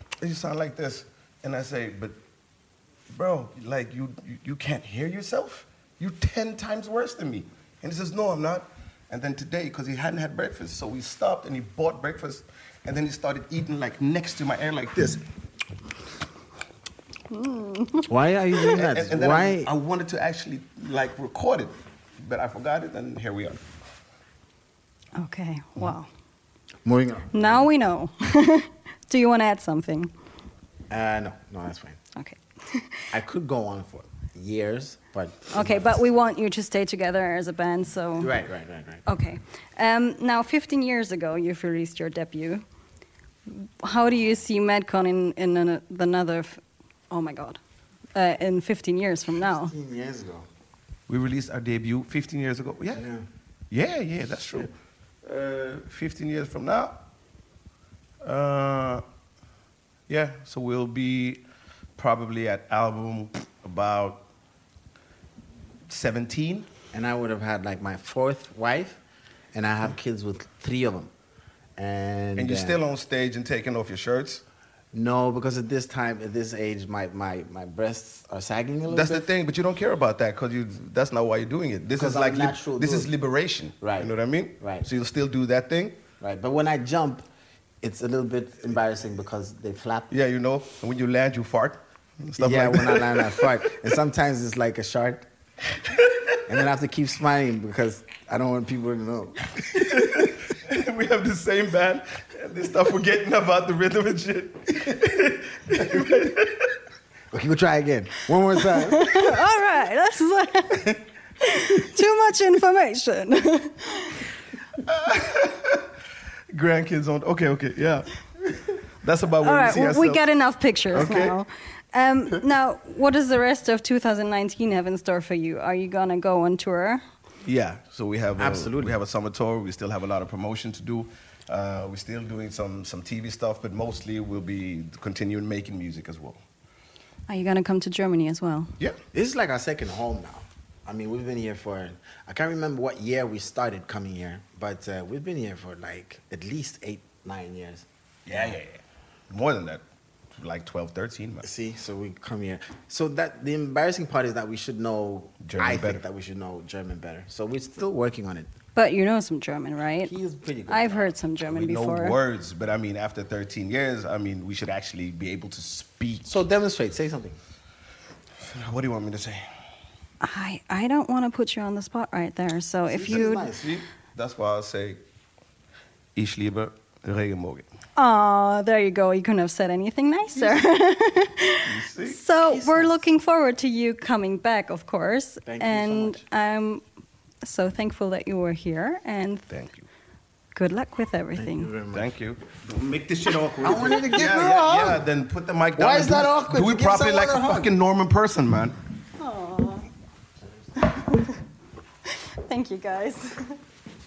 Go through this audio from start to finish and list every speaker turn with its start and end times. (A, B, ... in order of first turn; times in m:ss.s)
0:00.2-0:02.2 A
0:03.1-0:15.2 A
0:17.3-0:18.1 B
0:18.1-0:19.7 C
0:18.7-0:23.6 A
0:25.2-0:26.1 B
0:26.8-0:27.7 C
0:27.3-0:30.1 B
0:30.9-0:32.0 C
0:32.2-0:33.0 B
0:33.1-0:36.0 C
0:35.5-0:38.3 B
0:38.2-0:39.0 C
0:39.0-0:42.6 B
0:43.5-0:47.6 B
0:48.1-0:49.7 B
0:49.4-0:50.5 C
0:51.1-0:53.0 A
0:52.9-0:53.2 C
0:53.7-0:54.7 A
0:55.2-0:57.0 A
0:58.2-0:59.0 A
1:00.1-1:01.4 A
1:02.0-1:04.2 A
1:05.9-1:06.7 A
1:06.9-1:09.0 C
1:09.5-1:11.1 C
1:11.8-1:12.8 C
1:12.4-1:14.4 A
1:14.9-1:19.3 C
1:18.9-1:26.0 A
1:21.9-1:23.1 C
1:23.8-1:24.9 C
1:26.2-1:27.2 C
1:27.8-1:30.1 C
1:30.1-1:33.5 A
1:32.4-1:35.2 C
1:36.5-1:39.4 C
1:39.7-1:46.7 A
1:47.3-1:49.2 C
1:48.7-1:54.2 B
1:54.8-1:55.8 A
1:56.5-1:58.1 A
1:59.0-2:00.2 A
1:59.4-2:07.0 B
2:00.9-2:01.4 A
2:07.4-2:16.4 A
2:08.4-2:08.9 C
2:17.3-2:18.7 B
2:19.1-2:28.6 C
2:28.2-2:29.8 A
2:30.4-2:31.4 A
2:31.4-2:38.5 C
2:35.4-2:36.0 A
2:38.7-2:40.1 B
2:40.0-2:41.1 C
2:40.7-2:42.2 B
2:41.4-2:46.4 A
2:46.2-2:47.4 C
2:48.5-2:49.4 A
2:50.2-2:53.5 B
2:52.9-2:53.7 C
2:53.1-2:55.0 A
2:56.1-2:57.6 A
2:58.0-3:06.8 B
3:00.3-3:00.7 A
3:01.6-3:02.2 A
3:02.4-3:03.1 C
3:05.4-3:06.2 C
3:07.4-3:09.5 B
3:09.5-3:09.8 A
3:10.5-3:11.7 B
3:11.4-3:12.1 C
3:11.9-3:18.8 A
3:13.6-3:15.0 C
3:15.8-3:17.7 C
3:19.2-3:19.8 B
3:20.9-3:21.3 B
3:22.4-3:23.5 B